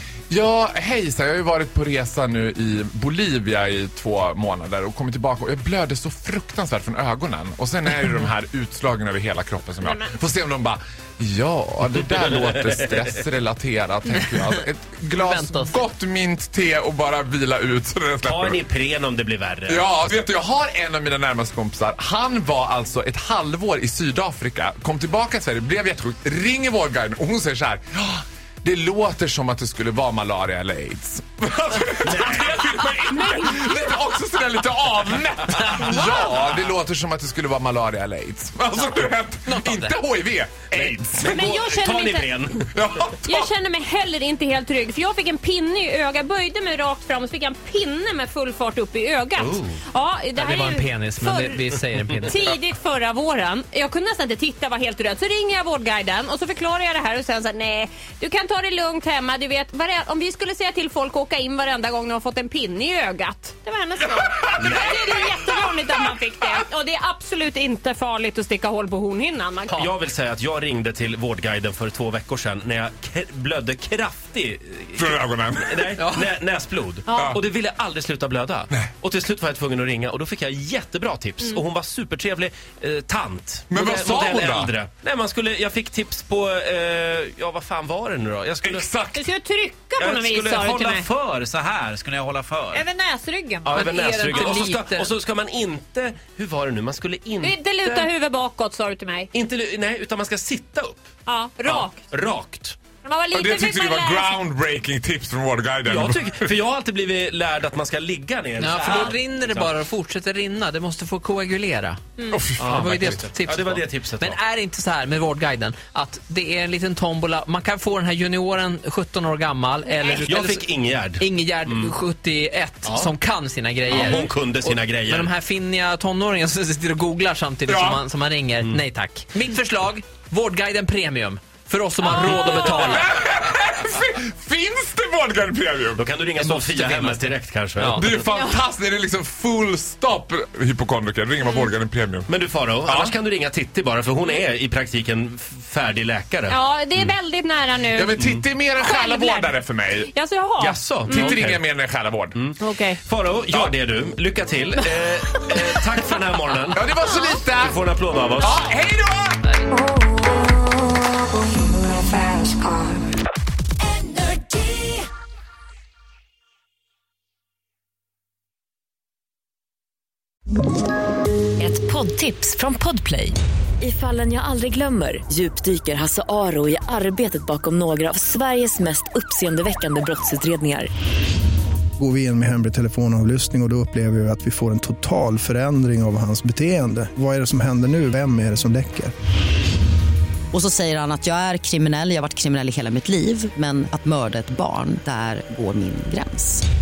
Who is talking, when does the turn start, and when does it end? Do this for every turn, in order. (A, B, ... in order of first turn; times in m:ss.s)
0:00.3-0:18.6 A
0:09.8-0:10.1 B
0:15.1-0:15.8 C
0:18.2-0:19.9 D
0:19.7-0:41.6 A
0:32.0-0:32.6 D
0:33.1-0:33.9 B
0:35.7-0:36.1 C
0:39.5-0:39.9 C
0:40.7-0:42.7 D
0:41.3-0:42.3 B
0:42.7-0:43.5 A
0:43.2-1:09.9 B
0:49.4-0:49.8 D
0:50.4-0:52.4 C
1:04.6-1:05.2 D
1:09.7-1:28.9 D
1:14.9-1:15.9 A
1:16.0-1:16.3 C
1:17.1-1:17.3 B
1:23.7-1:24.7 A
1:28.6-1:29.2 A
1:29.1-1:31.1 B
1:30.0-1:32.8 D
1:32.7-1:34.7 B
1:33.6-1:38.1 D
1:33.7-1:35.1 C
1:37.4-1:39.3 B
1:39.3-1:41.0 D
1:41.3-1:42.0 B
1:41.6-1:42.8 D
1:43.0-1:44.4 B
1:43.3-1:46.6 A
1:45.8-1:49.7 D
1:48.6-1:52.0 C
1:52.3-1:53.2 A
1:52.6-1:54.4 D
1:52.6-2:13.1 C
2:00.2-2:01.9 D
2:02.8-2:03.1 D
2:03.9-2:05.3 D
2:07.7-2:08.0 A
2:12.0-2:13.0 B
2:12.6-2:16.1 A
2:16.0-2:18.0 D
2:16.4-2:18.2 C
2:18.0-2:22.3 A
2:18.3-2:18.6 B
2:21.4-2:21.7 B
2:22.3-2:27.1 D
2:22.8-2:23.2 A
2:26.5-2:28.2 B
2:27.9-2:30.1 A
2:28.8-2:31.4 B
2:30.6-2:31.6 D
2:31.1-2:32.5 A
2:32.4-2:36.9 D
2:32.6-2:33.0 B
2:36.7-2:37.8 A
2:37.0-2:37.4 B
2:37.6-2:38.6 D
2:38.4-2:39.4 A
2:39.9-2:40.2 B
2:41.9-2:42.8 E
2:44.0-2:45.0 E
2:51.6-3:00.9 E
3:02.0-3:09.1 F
3:10.5-3:16.7 G